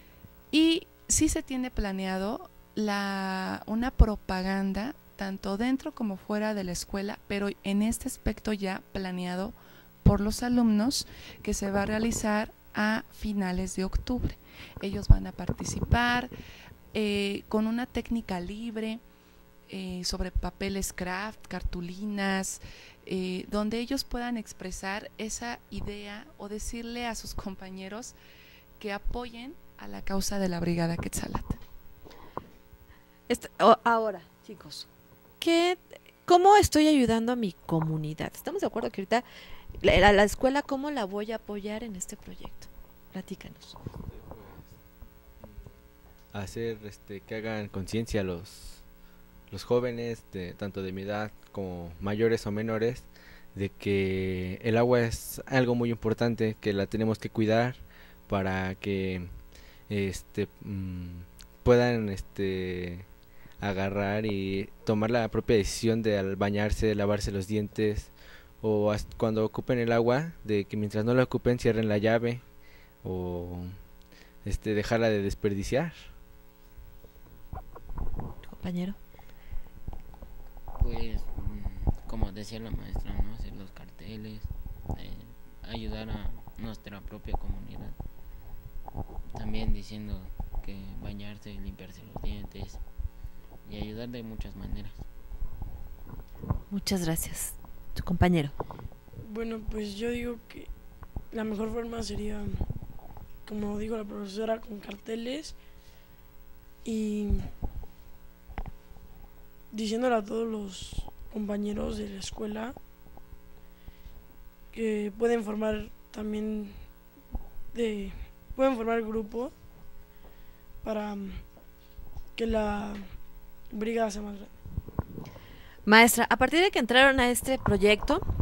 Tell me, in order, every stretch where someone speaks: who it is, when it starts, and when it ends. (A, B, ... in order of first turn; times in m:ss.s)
0:00.5-0:16.3 A
0:16.9-0:19.0 A
0:19.7-0:28.2 A
0:28.8-0:31.6 A
0:33.3-0:34.9 B
0:35.4-0:39.2 B
0:39.8-0:43.8 B
0:44.0-0:44.7 C
0:45.4-0:45.7 C
0:46.3-0:48.8 C
0:49.5-0:59.3 C
0:59.9-1:03.0 C
1:03.6-1:12.4 C
1:13.0-1:13.8 C
1:14.4-1:16.1 C
1:18.4-1:19.0 B
1:20.8-1:28.0 D
1:29.3-1:32.8 D
1:33.6-1:35.0 D
1:36.7-1:38.5 B
1:39.2-1:40.7 E
1:41.3-1:42.6 E
1:43.4-1:45.5 E
1:46.8-1:47.5 E
1:49.7-1:52.8 E
1:54.7-1:56.8 E
1:57.7-1:59.5 E
2:00.8-2:01.4 E
2:02.4-2:03.1 E
2:03.7-2:04.5 E
2:05.8-2:08.2 B